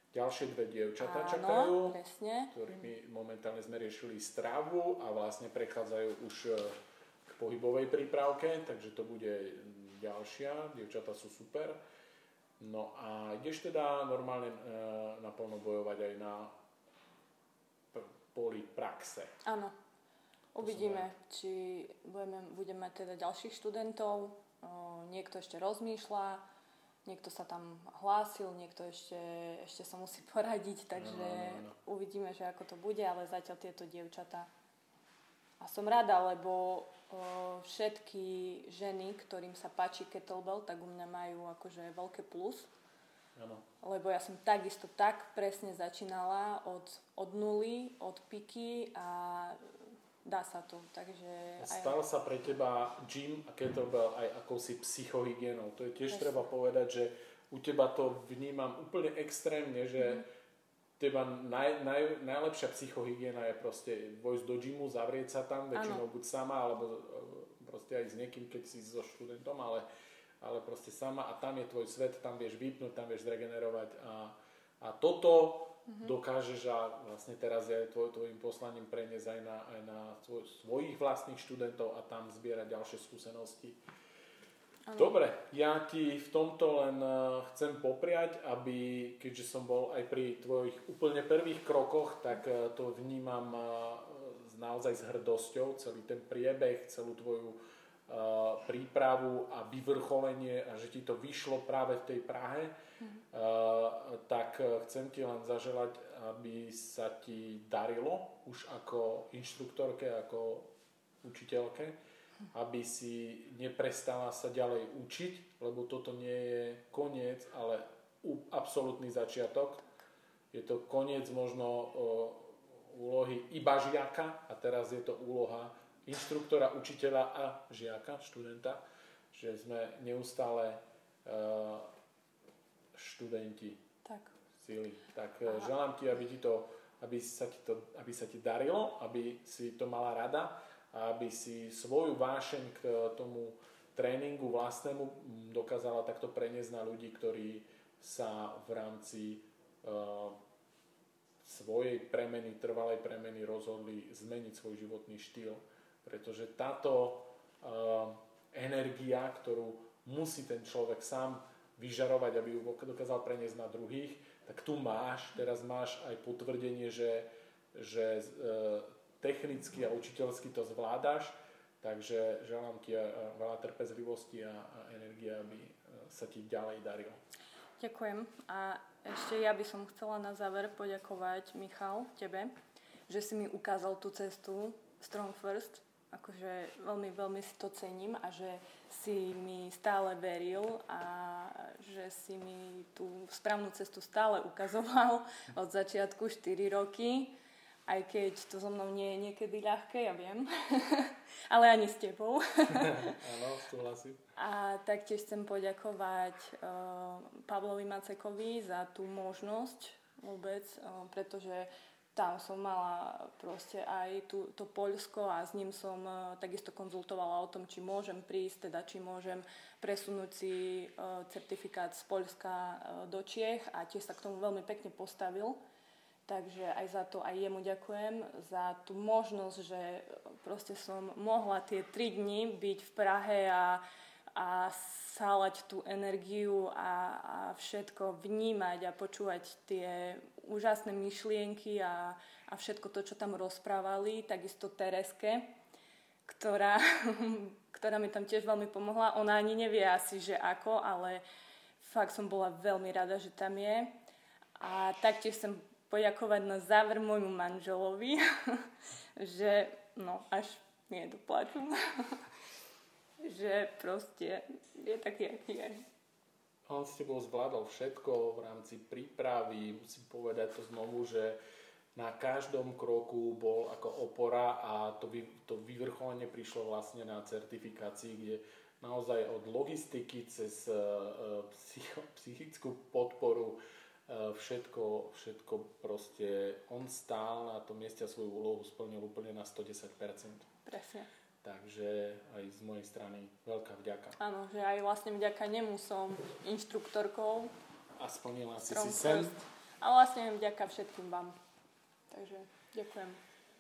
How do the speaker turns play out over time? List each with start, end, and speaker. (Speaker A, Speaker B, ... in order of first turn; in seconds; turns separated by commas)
Speaker A: 0.1-2.0, Speaker B: 1.0-2.5, Speaker A: 2.5-11.8, Speaker A: 12.6-16.5, Speaker A: 17.9-19.4, Speaker B: 19.4-19.7, Speaker B: 20.5-26.4, Speaker A: 20.6-21.1, Speaker B: 27.1-34.5, Speaker A: 30.9-31.8, Speaker B: 35.6-42.7, Speaker A: 43.4-43.6, Speaker B: 43.8-49.6, Speaker B: 50.2-52.0, Speaker A: 51.6-60.3, Speaker A: 61.0-69.9, Speaker B: 65.7-66.0, Speaker A: 70.4-83.8, Speaker B: 84.9-85.2, Speaker A: 85.0-102.8, Speaker A: 103.3-110.7, Speaker A: 111.2-112.0, Speaker A: 112.5-119.8, Speaker A: 120.5-128.8, Speaker A: 129.3-131.9, Speaker A: 132.9-133.8, Speaker B: 134.0-134.3, Speaker A: 134.6-150.4, Speaker A: 151.4-177.2, Speaker B: 177.8-182.5, Speaker B: 183.1-197.4, Speaker B: 197.9-203.2, Speaker A: 202.7-204.2, Speaker B: 204.4-225.6, Speaker B: 226.3-233.8, Speaker B: 234.3-245.5, Speaker B: 246.3-251.2, Speaker B: 251.8-253.9, Speaker B: 254.6-262.3, Speaker B: 263.2-265.9, Speaker A: 266.7-271.4, Speaker A: 271.9-290.5, Speaker B: 290.7-291.1, Speaker A: 291.4-294.2, Speaker B: 294.2-297.5, Speaker A: 298.0-299.4, Speaker B: 298.7-301.4, Speaker B: 302.1-303.2